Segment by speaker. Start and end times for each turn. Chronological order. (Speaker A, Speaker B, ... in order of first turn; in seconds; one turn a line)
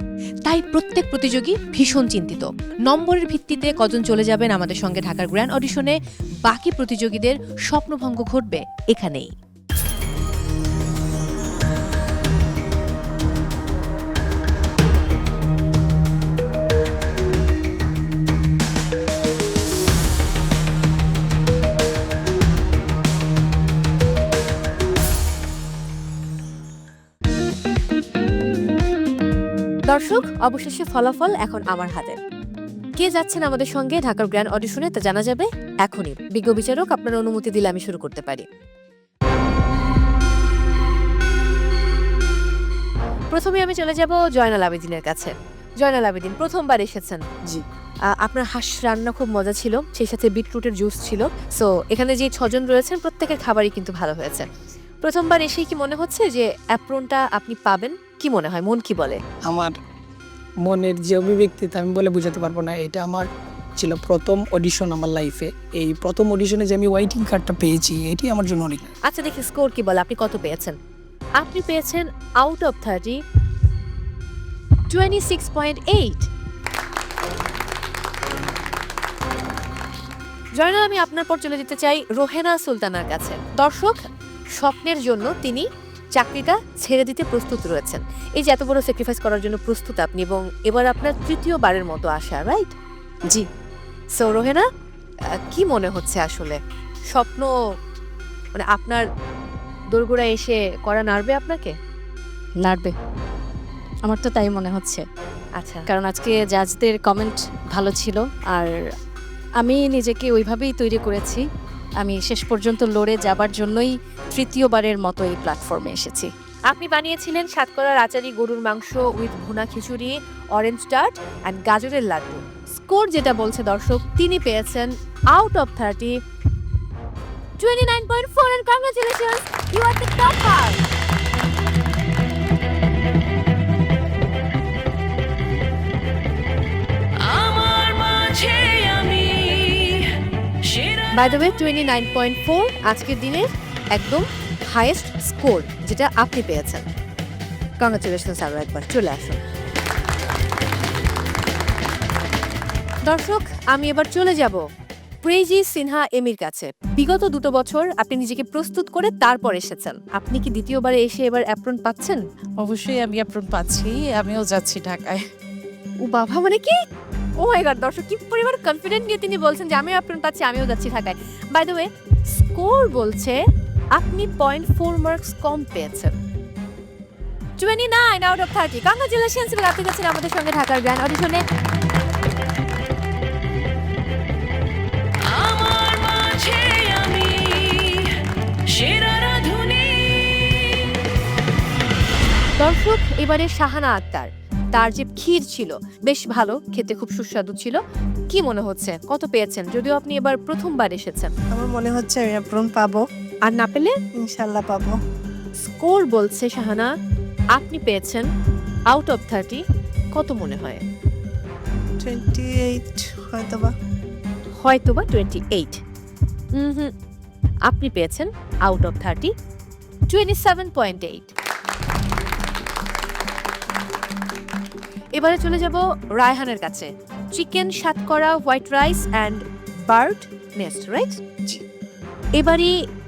Speaker A: 0.5-9.3
Speaker A: 29.9-32.2
Speaker A: 33.0-38.5
Speaker A: 43.3-47.2
Speaker A: 48.1-54.5
Speaker A: 55.0-59.2
Speaker B: 59.4-59.7
Speaker B: 60.6-68.9
Speaker A: 69.0-70.8
Speaker A: 71.4-73.2
Speaker A: 74.9-76.3
Speaker A: 80.6-84.0
Speaker A: 84.6-92.7
Speaker A: 94.2-94.7
Speaker A: 95.4-96.6
Speaker A: 97.1-97.5
Speaker A: 98.5-99.0
Speaker A: 99.9-101.7
Speaker C: 102.6-102.9
Speaker C: 104.0-105.0
Speaker A: 105.6-105.8
Speaker C: 105.9-108.7
Speaker C: 109.6-111.4
Speaker C: 112.0-116.3
Speaker A: 116.7-126.2
Speaker A: 127.6-130.8
Speaker A: 141.2-146.8
Speaker A: 147.8-149.4
Speaker A: 153.1-154.6
Speaker A: 155.2-162.2
Speaker D: 162.6-165.2
Speaker A: 166.0-166.8
Speaker A: 167.4-173.4
Speaker A: 173.9-176.2
Speaker A: 177.6-181.4
Speaker A: 192.6-197.8
Speaker A: 198.3-201.3
Speaker E: 201.5-203.0
Speaker A: 203.4-203.9
Speaker E: 204.2-205.0
Speaker A: 205.6-206.9
Speaker A: 207.5-208.3
Speaker A: 208.9-209.6
Speaker A: 210.1-210.8
Speaker E: 212.0-213.7
Speaker A: 214.6-215.8
Speaker A: 216.5-216.9
Speaker A: 217.7-219.3
Speaker A: 220.1-221.3
Speaker A: 225.2-231.2
Speaker A: 232.4-232.8